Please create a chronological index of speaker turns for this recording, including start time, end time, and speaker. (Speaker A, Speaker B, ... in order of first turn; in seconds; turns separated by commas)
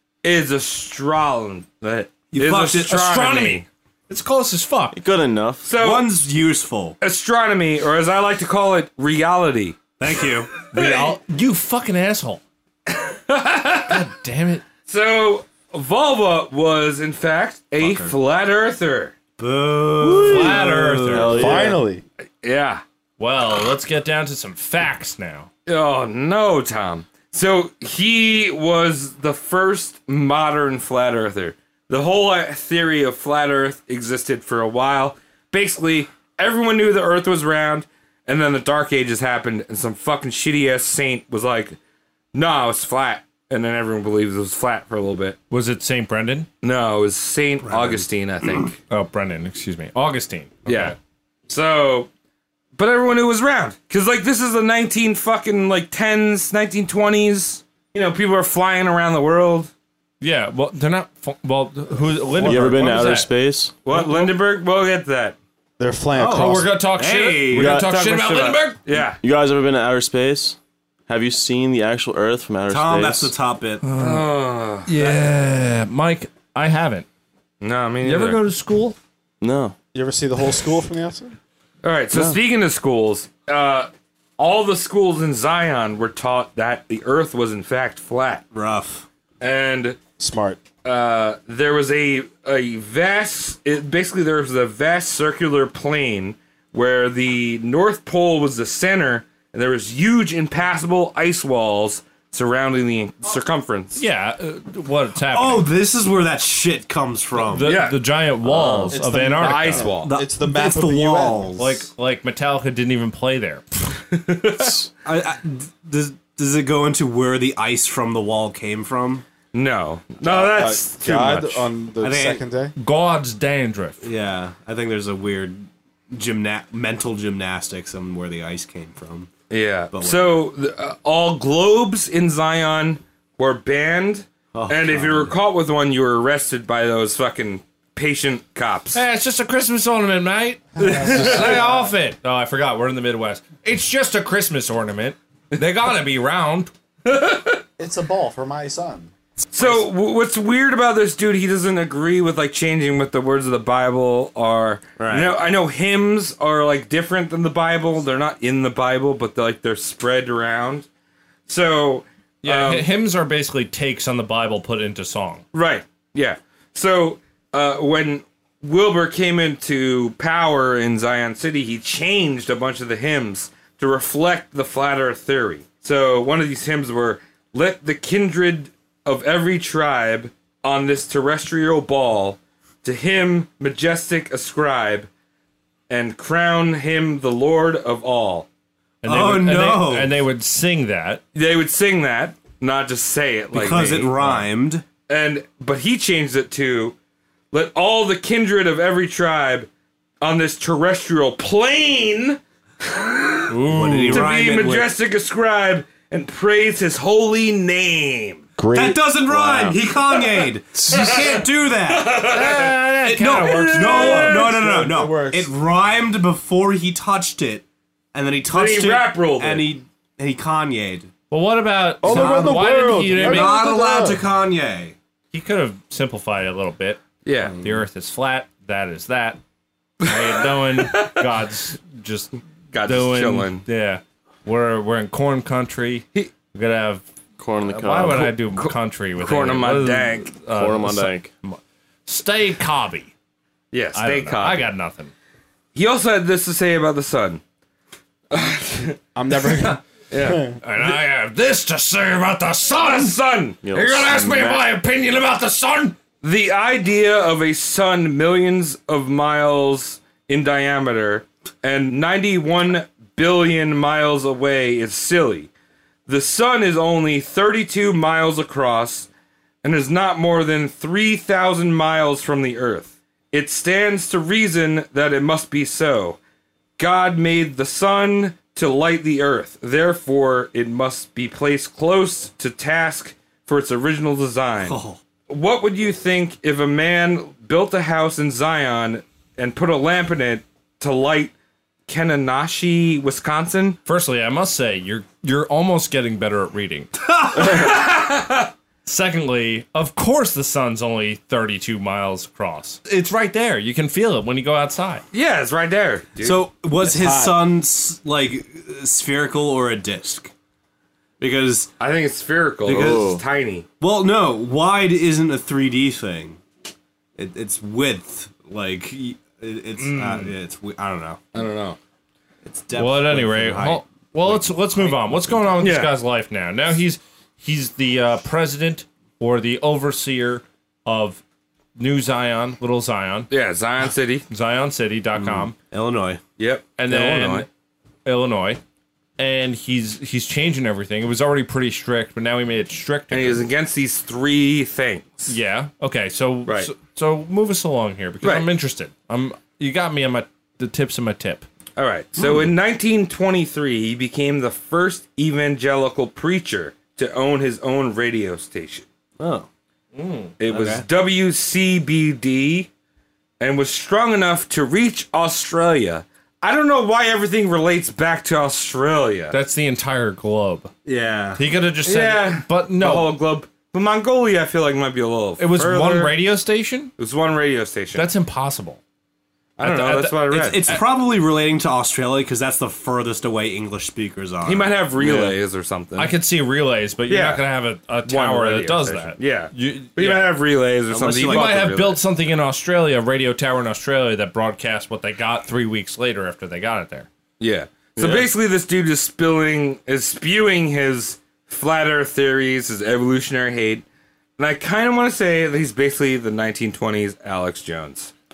Speaker A: 0.2-3.6, Speaker B: 2.3-3.5, Speaker C: 2.9-5.0, Speaker D: 4.9-5.7, Speaker A: 5.6-6.1, Speaker B: 5.7-7.0, Speaker A: 7.0-9.8, Speaker B: 10.0-10.5, Speaker C: 10.7-12.4, Speaker A: 10.7-11.1, Speaker A: 12.9-13.9, Speaker C: 13.9-14.6, Speaker A: 14.9-19.1, Speaker B: 17.8-18.1, Speaker B: 19.4-21.7, Speaker C: 20.2-21.6, Speaker D: 21.1-21.8, Speaker E: 21.1-22.0, Speaker A: 22.4-22.8, Speaker C: 23.2-25.5, Speaker A: 25.6-41.8, Speaker A: 42.3-45.4, Speaker C: 45.5-46.5, Speaker A: 46.6-48.8, Speaker B: 47.6-48.1, Speaker C: 48.9-51.0, Speaker A: 50.6-51.0, Speaker A: 51.5-52.1, Speaker A: 52.8-59.7, Speaker C: 60.2-63.3, Speaker D: 62.4-63.8, Speaker A: 63.8-65.4, Speaker C: 63.9-64.3, Speaker E: 65.8-66.7, Speaker B: 66.1-67.8, Speaker C: 66.3-68.8, Speaker D: 67.5-67.9, Speaker A: 67.7-69.2, Speaker D: 69.2-73.3, Speaker B: 72.7-73.8, Speaker C: 73.8-74.2, Speaker A: 74.0-75.3, Speaker C: 74.8-77.1, Speaker A: 77.6-78.4, Speaker C: 78.0-79.0, Speaker D: 79.4-79.7, Speaker E: 79.9-81.4, Speaker A: 81.8-88.5, Speaker B: 88.5-89.0, Speaker A: 89.4-90.0, Speaker E: 90.2-90.6, Speaker A: 90.8-104.0, Speaker C: 104.0-105.7, Speaker B: 105.3-107.8, Speaker C: 107.4-109.9, Speaker A: 107.6-108.0, Speaker D: 108.5-108.9, Speaker E: 108.9-111.5, Speaker A: 109.3-110.1, Speaker B: 110.0-111.8, Speaker C: 111.6-113.6, Speaker A: 114.1-114.7, Speaker B: 115.0-119.2, Speaker A: 119.5-121.7, Speaker E: 120.2-122.7, Speaker B: 122.0-122.4, Speaker C: 122.8-124.0, Speaker B: 124.0-129.3, Speaker A: 129.5-139.0, Speaker B: 129.9-130.4, Speaker B: 134.5-135.4, Speaker C: 138.9-146.7, Speaker E: 140.8-141.9, Speaker A: 147.1-147.5, Speaker E: 147.8-149.1, Speaker A: 149.5-160.9, Speaker B: 149.6-149.8, Speaker B: 155.0-155.4, Speaker A: 161.5-162.9, Speaker C: 162.4-165.4, Speaker A: 165.5-185.1, Speaker A: 185.9-188.5, Speaker C: 189.0-191.2, Speaker B: 189.0-190.2, Speaker A: 191.3-194.1, Speaker B: 193.5-194.8, Speaker A: 195.1-196.9, Speaker A: 197.5-199.7, Speaker A: 200.2-203.5, Speaker C: 203.5-204.3, Speaker B: 203.7-204.9, Speaker A: 204.1-208.4, Speaker E: 208.6-209.8, Speaker B: 208.7-212.4, Speaker A: 210.3-212.8, Speaker C: 212.3-214.4, Speaker B: 213.0-221.1, Speaker A: 213.4-214.5, Speaker E: 214.0-215.5, Speaker A: 218.5-219.7, Speaker C: 221.3-223.7, Speaker E: 222.0-224.2, Speaker B: 222.0-224.9, Speaker C: 225.3-227.0, Speaker A: 227.2-227.6, Speaker C: 227.6-229.4, Speaker C: 230.0-237.0, Speaker A: 230.1-231.2, Speaker A: 232.7-233.6, Speaker D: 237.4-238.3, Speaker C: 237.6-243.1, Speaker A: 238.1-240.3, Speaker D: 240.5-241.3, Speaker A: 243.7-244.7, Speaker C: 243.9-245.1, Speaker A: 245.7-247.4, Speaker A: 248.3-249.5, Speaker E: 249.1-250.6, Speaker A: 250.1-250.4, Speaker C: 250.6-256.0, Speaker A: 252.8-253.6, Speaker D: 253.6-254.6, Speaker A: 256.2-265.5, Speaker A: 266.1-269.1, Speaker A: 269.6-276.2, Speaker A: 276.8-291.3, Speaker B: 284.6-285.0, Speaker A: 291.9-293.8, Speaker C: 293.9-296.9, Speaker B: 297.1-297.6, Speaker A: 297.4-298.5, Speaker C: 298.8-305.0, Speaker A: 305.1-306.4, Speaker B: 306.2-310.3, Speaker E: 306.8-307.4, Speaker B: 311.2-311.7, Speaker A: 311.8-313.6, Speaker B: 312.6-313.1, Speaker D: 312.7-313.2, Speaker B: 313.8-316.4, Speaker B: 317.1-321.2, Speaker A: 319.8-320.3, Speaker A: 321.3-321.8, Speaker B: 322.4-325.5, Speaker C: 322.8-331.2, Speaker A: 325.6-325.9, Speaker C: 331.8-333.3, Speaker A: 333.3-334.2, Speaker C: 334.3-335.5, Speaker B: 335.1-336.2, Speaker A: 336.4-337.5, Speaker C: 336.8-337.5, Speaker C: 338.0-338.6, Speaker C: 339.2-343.4, Speaker A: 343.1-345.4, Speaker C: 345.3-351.4, Speaker A: 346.4-346.7, Speaker A: 348.2-348.5, Speaker A: 351.8-358.8, Speaker B: 359.2-359.5, Speaker C: 359.9-360.3, Speaker A: 360.4-362.7, Speaker B: 360.5-360.9, Speaker A: 363.4-369.4, Speaker C: 369.3-370.7, Speaker B: 370.8-371.4, Speaker C: 371.4-373.1, Speaker A: 371.8-376.1, Speaker C: 375.4-376.9, Speaker A: 377.0-378.1, Speaker C: 377.9-378.8, Speaker A: 379.6-380.8, Speaker C: 379.6-380.8, Speaker B: 380.3-385.2, Speaker A: 384.4-386.1, Speaker C: 385.9-390.3, Speaker A: 387.1-387.4, Speaker A: 388.0-392.0, Speaker B: 390.9-391.7, Speaker C: 391.2-397.1, Speaker A: 397.4-403.8, Speaker D: 397.9-398.3, Speaker A: 404.4-408.1